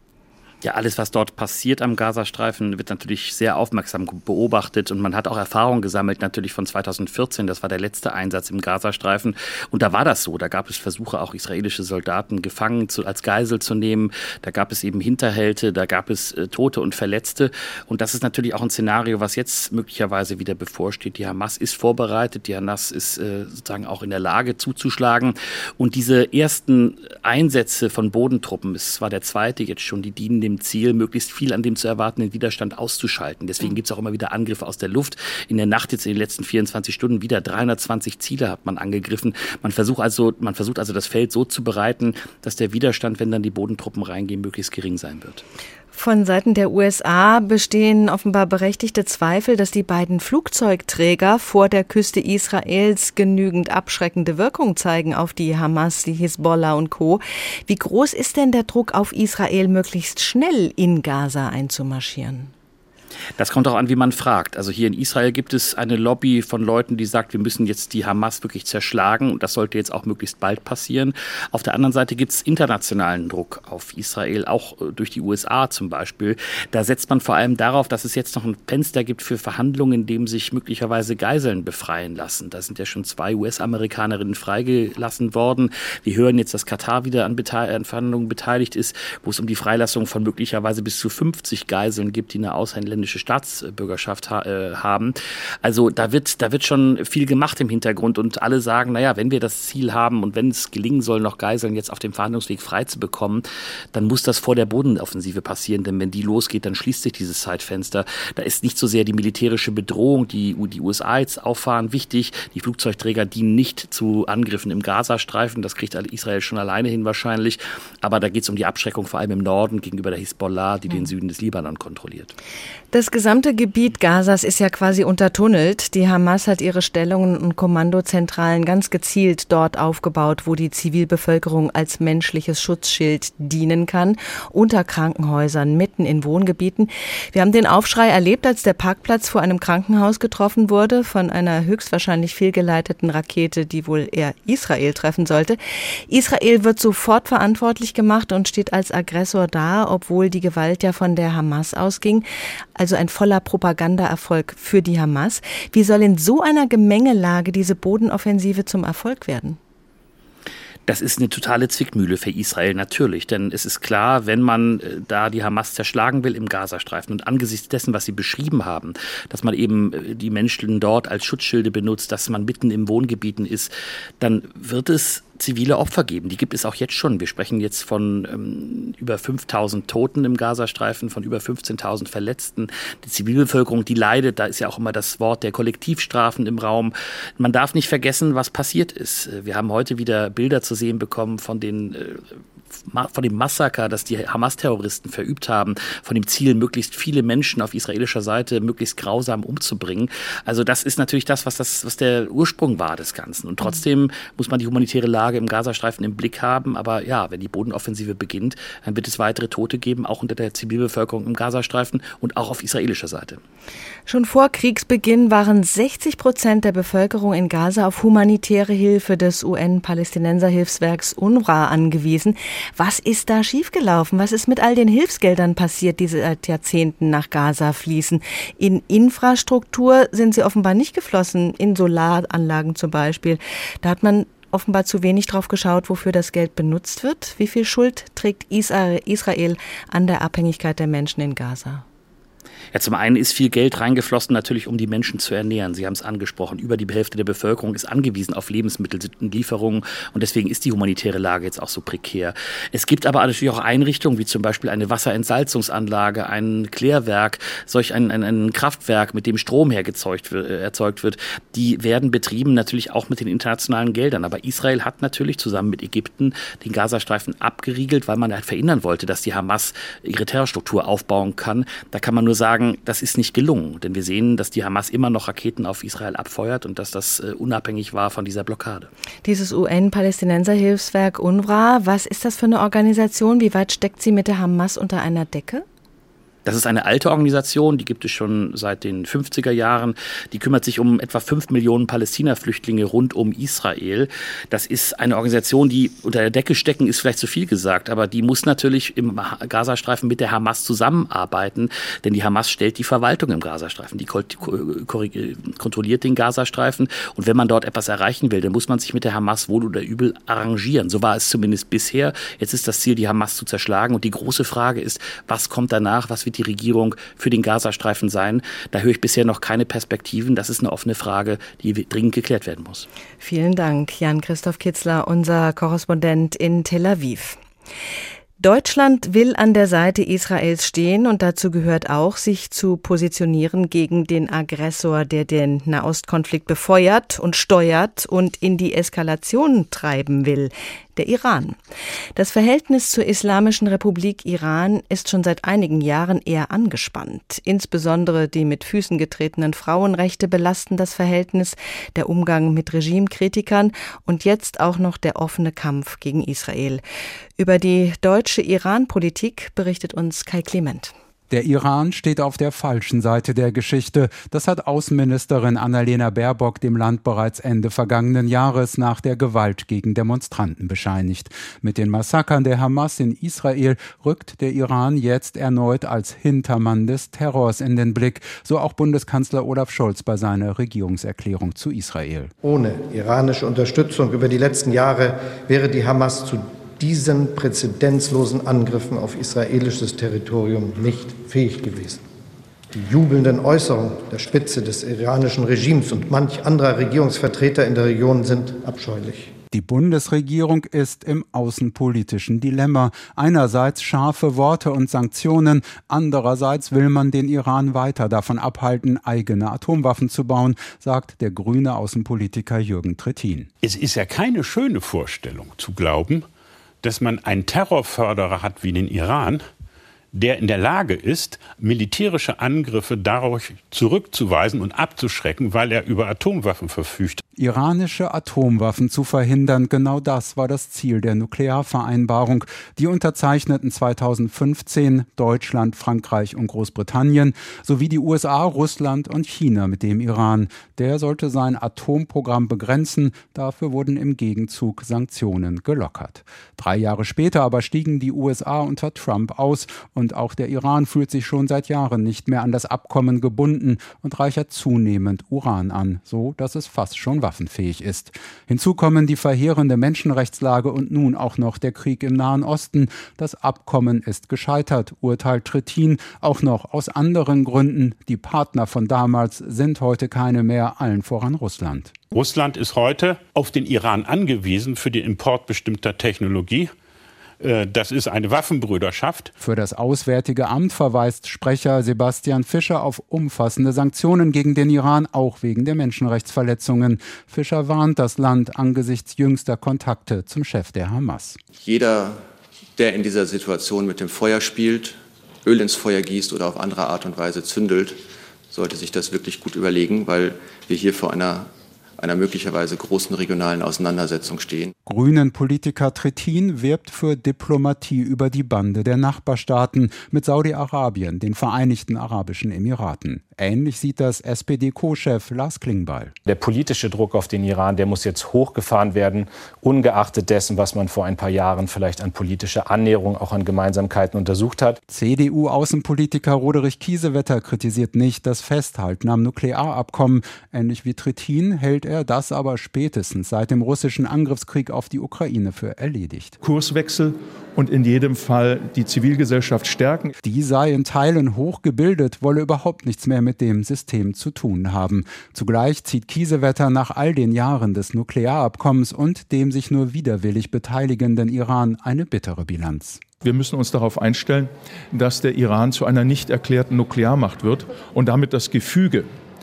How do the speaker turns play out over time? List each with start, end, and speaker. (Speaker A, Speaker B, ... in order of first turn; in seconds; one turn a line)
Speaker A: 0.6-45.4
Speaker B: 45.9-62.5
Speaker A: 63.4-122.3
Speaker B: 122.9-159.6
Speaker A: 160.8-192.3
Speaker A: 192.9-213.4
Speaker B: 214.1-241.8
Speaker A: 242.7-278.9
Speaker B: 279.2-285.6
Speaker A: 286.4-322.9
Speaker B: 323.2-327.4
Speaker B: 328.4-341.6
Speaker B: 342.1-356.8
Speaker B: 357.4-360.9
Speaker C: 361.3-382.3
Speaker D: 382.4-392.0
Speaker D: 392.7-399.3
Speaker C: 399.5-413.5
Speaker E: 413.6-416.3
Speaker E: 416.8-419.5
Speaker E: 420.1-427.2
Speaker C: 427.4-472.0
Speaker E: 472.1-476.7
Speaker E: 477.4-479.3
Speaker C: 479.4-491.4
Speaker F: 491.6-492.2
Speaker F: 492.8-498.0
Speaker F: 498.5-504.7
Speaker C: 504.9-516.1
Speaker G: 516.2-524.8
Speaker C: 524.9-536.4
Speaker H: 536.4-540.1
Speaker C: 540.2-553.1
Speaker H: 553.2-559.1